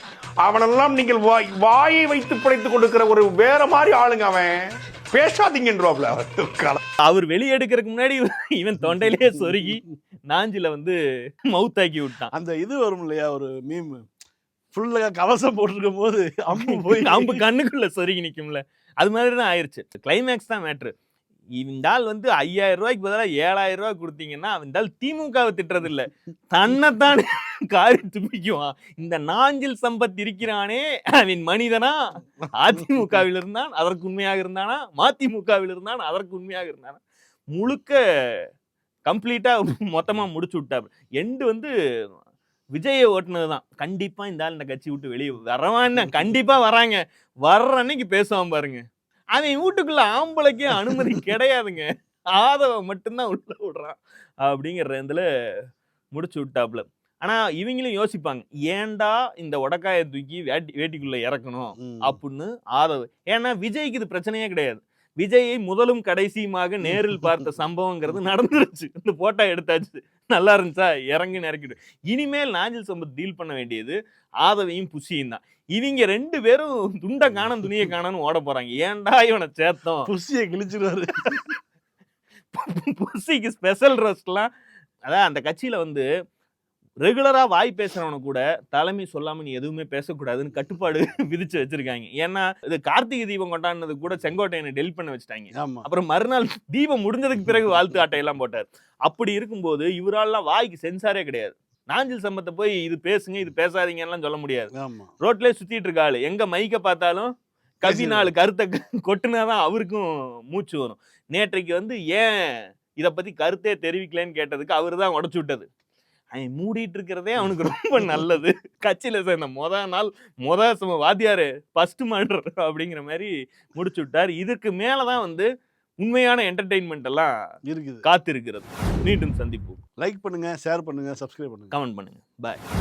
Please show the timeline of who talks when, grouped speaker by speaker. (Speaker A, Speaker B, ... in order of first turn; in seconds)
Speaker A: 0.4-6.8
Speaker B: 7.0-11.0, 11.5-12.3, 16.6-20.9, 21.6-37.0, 37.5-38.0, 39.1-41.7, 42.8-55.3, 56.1-80.1, 81.3-81.5, 82.5-84.5, 85.1-86.1, 87.0-107.3, 107.8-115.7, 116.3-125.5, 126.0-127.4, 128.0-129.8, 131.7-132.6
Speaker C: 8.9-9.8, 12.3-14.1, 14.7-17.4, 32.4-33.2, 61.8-62.2, 66.8-67.4, 80.1-81.5, 95.5-95.9, 104.8-105.1, 107.8-108.3, 117.5-118.2, 127.7-128.1, 130.0-131.7